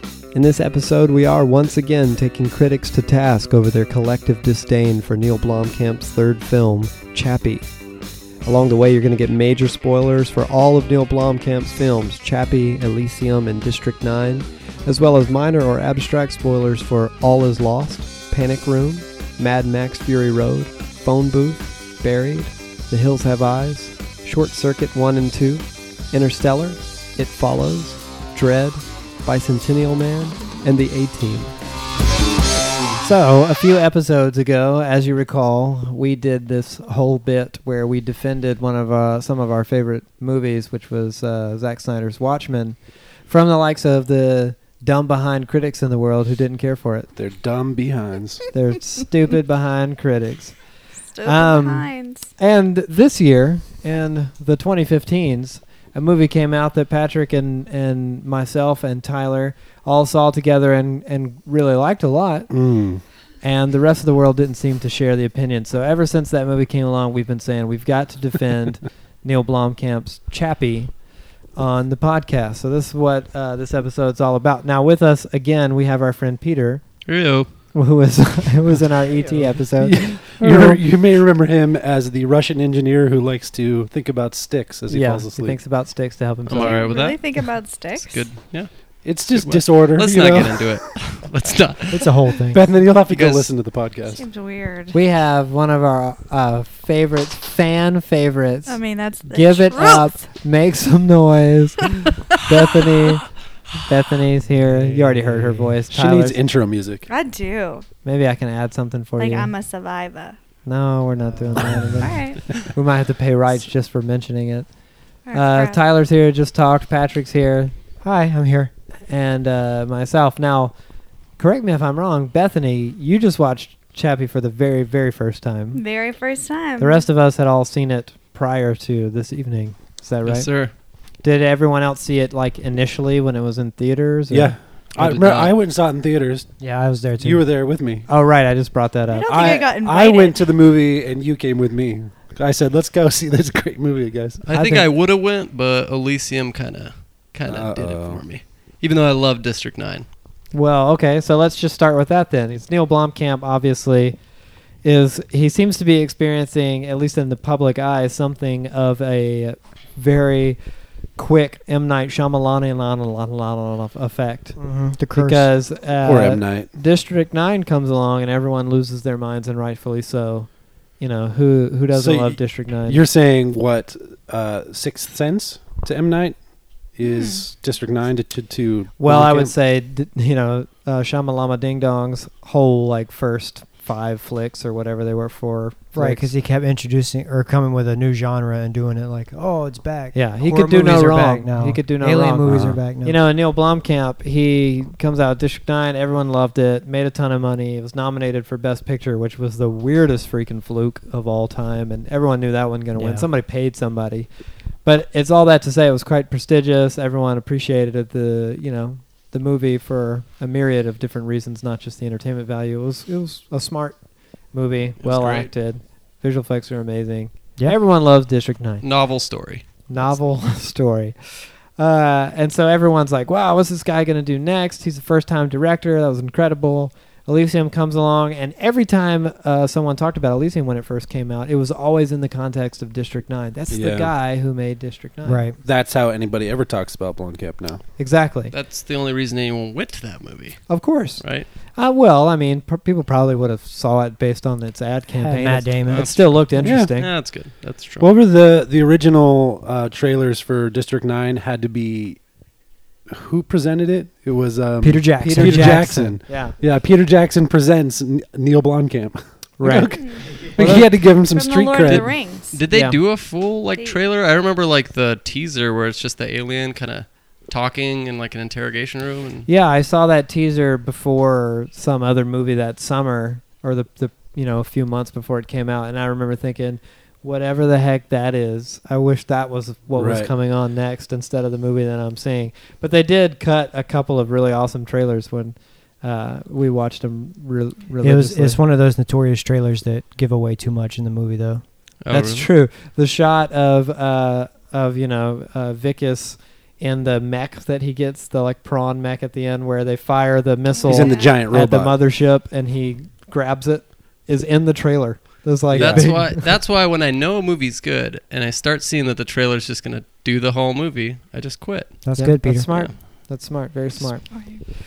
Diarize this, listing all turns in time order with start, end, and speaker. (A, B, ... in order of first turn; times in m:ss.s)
0:00.3-0:07.7 A
0:08.4-0:31.5 A
0:33.0-0:47.1 A
0:47.2-0:48.5 B
0:48.5-0:50.6 A
0:51.1-0:52.3 C
0:51.2-1:02.5 A
1:02.5-1:03.0 B
1:03.4-1:10.9 A
1:11.6-1:16.9 A
1:17.1-1:17.5 D
1:17.7-1:20.8 A
1:19.8-1:25.6 B
1:24.9-1:26.9 A
1:26.5-1:28.7 D
1:26.6-1:28.3 C
1:29.0-1:30.7 B
1:29.3-1:32.4 D
1:31.9-1:32.6 A
1:32.5-1:34.2 B
1:33.1-1:33.5 D
1:34.1-1:35.0 C
1:34.9-1:43.3 A
1:38.7-1:40.3 C
1:43.8-1:46.4 A
1:44.8-1:45.7 E
1:45.0-1:47.1 B
1:47.1-1:47.8 C
1:48.0-1:49.5 A
1:49.2-1:50.4 C
1:50.7-1:54.7 A
1:52.0-1:52.6 C
1:55.3-1:55.8 C
1:55.3-1:57.8 A
1:58.0-1:58.7 E
1:59.1-2:00.7 A
2:01.4-2:05.8 A
2:05.7-2:07.0 C
2:06.8-2:10.5 A
2:10.3-2:10.7 D
2:11.2-2:14.6 A
2:14.3-2:16.5 B
2:15.0-2:15.5 D
2:16.6-2:17.4 E
2:17.2-2:18.1 B
2:18.1-2:19.6 A
2:19.1-2:20.4 C
2:19.3-2:24.4 B
2:24.5-2:30.1 D
2:24.5-2:24.9 A
2:27.5-2:28.2 B
2:30.5-2:34.2 A
2:34.8-2:40.6 A
2:41.2-2:53.0 A
2:44.6-2:45.5 E
2:46.0-2:46.7 B
2:51.9-2:56.4 B
2:57.0-2:59.5 B
2:57.0-2:57.4 C
2:59.0-3:06.3 A
3:05.9-3:13.2 E
3:10.1-3:24.3 A
3:12.4-3:12.8 B
3:23.0-3:23.3 E
3:24.8-3:34.0 A
3:34.5-3:38.8 A
3:35.0-3:35.5 B
3:38.8-3:39.6 D
3:39.9-3:55.4 A
3:53.7-3:54.1 B
3:55.2-3:55.6 E
3:55.6-3:57.8 B
3:58.0-3:58.5 A
3:58.5-4:01.5 D
4:00.7-4:07.1 A
4:05.2-4:06.6 E
4:05.9-4:08.1 D
4:06.6-4:07.0 B
4:08.0-4:12.2 B
4:13.1-4:22.1 B
4:14.8-4:16.2 E
4:15.2-4:16.6 A
4:19.6-4:20.9 A
4:21.3-4:22.6 C
4:21.8-4:29.5 D
4:22.7-4:23.0 A
4:29.5-4:48.6 A
4:40.0-4:40.3 B
4:48.0-4:51.6 E
4:52.0-4:52.5 D
4:52.1-5:06.5 A
5:00.7-5:01.4 C
5:00.9-5:02.0 B
5:05.7-5:06.1 B
5:05.7-5:12.1 D
5:12.0-5:12.7 E
5:12.2-5:14.3 A
5:14.3-5:14.6 C